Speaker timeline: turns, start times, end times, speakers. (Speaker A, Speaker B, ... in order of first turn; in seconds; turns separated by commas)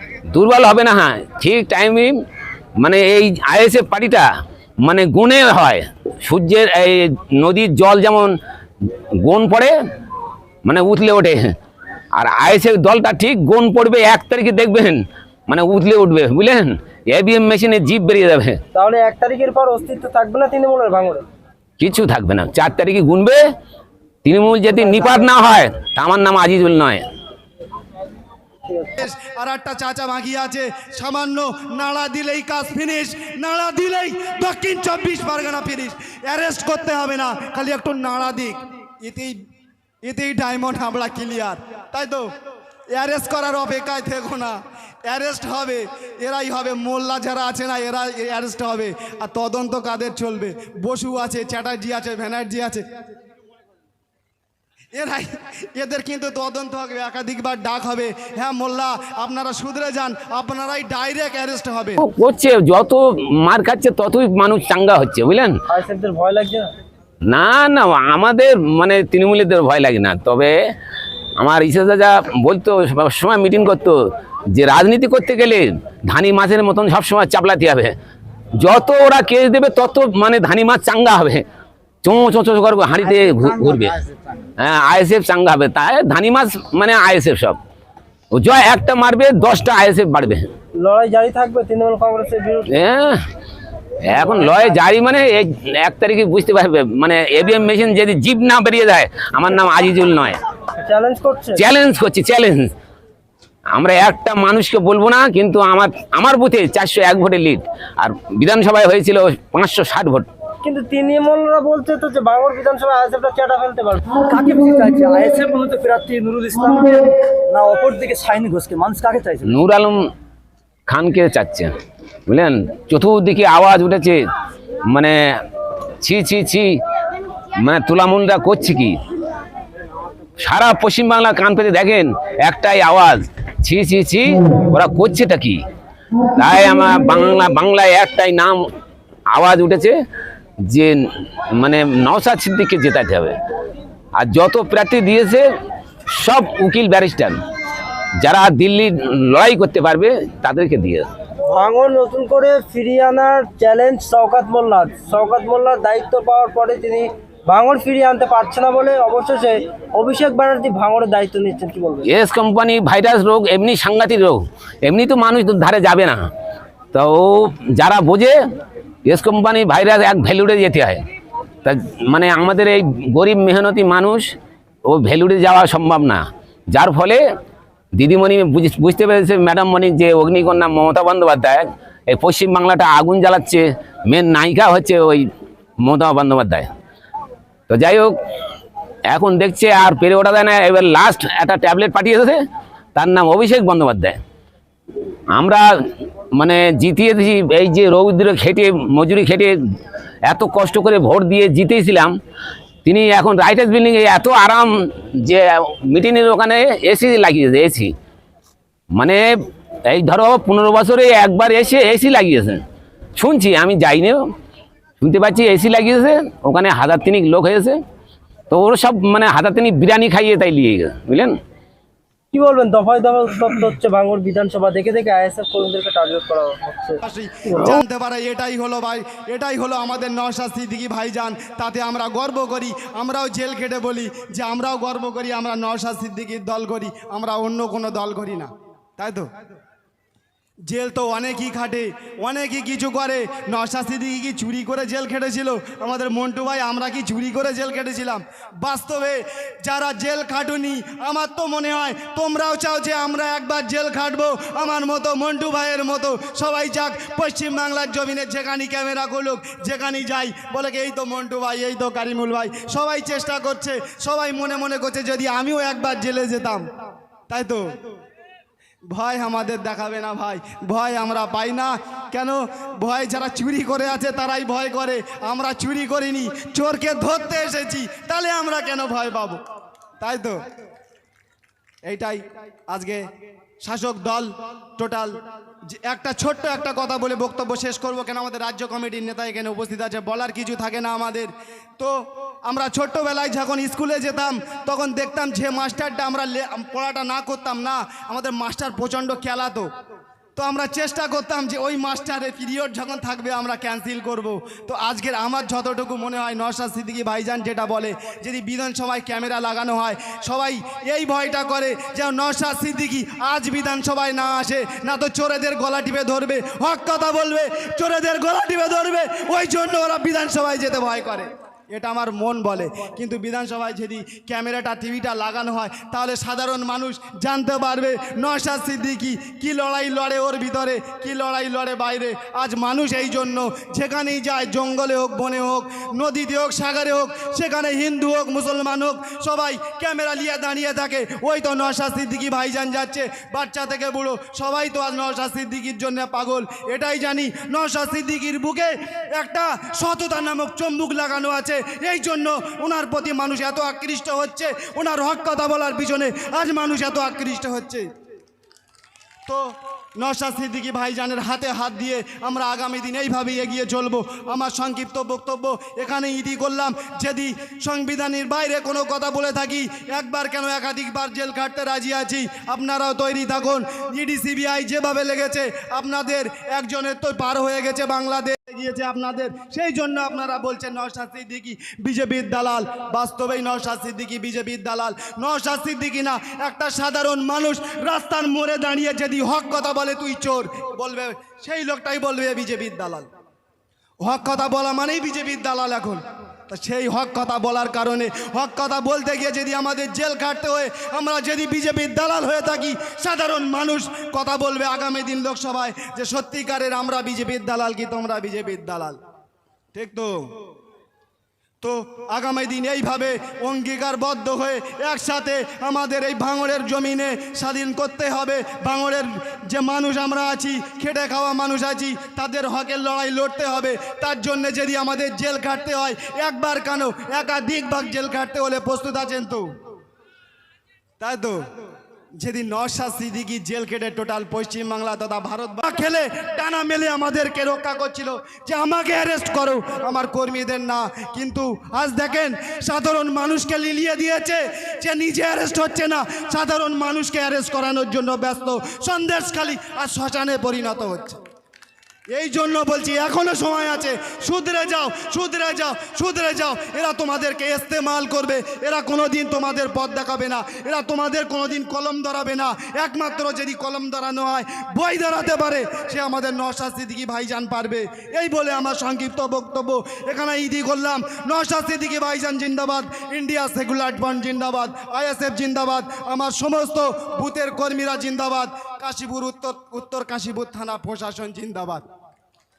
Speaker A: 0.3-2.2, Speaker A: 2.8-4.3, Speaker A: 4.8-8.4, Speaker A: 9.1-9.8, Speaker A: 10.6-11.6, Speaker A: 12.1-18.6, Speaker B: 18.7-21.2, Speaker A: 21.8-23.4, Speaker A: 24.2-27.0, Speaker B: 24.8-25.3, Speaker B: 28.7-29.0, Speaker C: 29.0-39.4, Speaker C: 40.0-42.3, Speaker C: 42.9-52.8, Speaker C: 55.0-62.0, Speaker A: 62.0-65.6, Speaker B: 65.7-66.7, Speaker A: 67.3-70.7, Speaker A: 71.4-77.9, Speaker A: 78.6-81.4, Speaker A: 82.0-87.6, Speaker A: 88.3-90.5, Speaker B: 90.8-92.7, Speaker A: 92.7-93.2, Speaker A: 94.0-100.4, Speaker B: 100.8-101.6, Speaker A: 101.5-102.7, Speaker A: 103.7-110.3, Speaker B: 110.6-114.2, Speaker D: 114.2-119.5, Speaker A: 119.4-120.1, Speaker A: 120.9-121.7, Speaker A: 122.3-124.2, Speaker A: 124.9-125.4, Speaker A: 126.0-126.8, Speaker A: 127.6-129.0, Speaker A: 130.4-135.6, Speaker A: 136.3-138.7, Speaker A: 139.3-140.0, Speaker A: 140.7-143.4, Speaker A: 144.2-145.5, Speaker A: 146.1-147.4, Speaker A: 148.2-151.1, Speaker B: 151.5-162.1, Speaker A: 162.1-166.3, Speaker A: 166.9-168.4, Speaker A: 169.1-171.0, Speaker A: 171.6-174.3, Speaker A: 174.8-177.2, Speaker A: 177.9-185.3, Speaker A: 185.8-186.7, Speaker A: 187.7-188.2, Speaker A: 189.1-192.4, Speaker A: 192.9-194.2, Speaker A: 195.3-195.8, Speaker A: 196.3-199.6, Speaker A: 200.2-202.2, Speaker A: 202.8-207.9, Speaker A: 208.9-212.6, Speaker A: 213.2-214.2, Speaker A: 215.0-217.8, Speaker A: 218.5-221.4, Speaker B: 222.3-227.8, Speaker C: 227.0-239.3, Speaker C: 240.7-266.6, Speaker C: 267.3-267.8, Speaker C: 268.9-279.4, Speaker C: 280.0-280.4, Speaker C: 281.9-283.0, Speaker C: 283.6-285.1, Speaker C: 285.7-299.7, Speaker C: 300.4-357.9, Speaker C: 359.3-393.1, Speaker C: 394.0-409.0, Speaker C: 409.8-410.4, Speaker C: 411.6-429.4, Speaker C: 431.0-431.5, Speaker C: 432.2-451.2, Speaker C: 452.1-481.8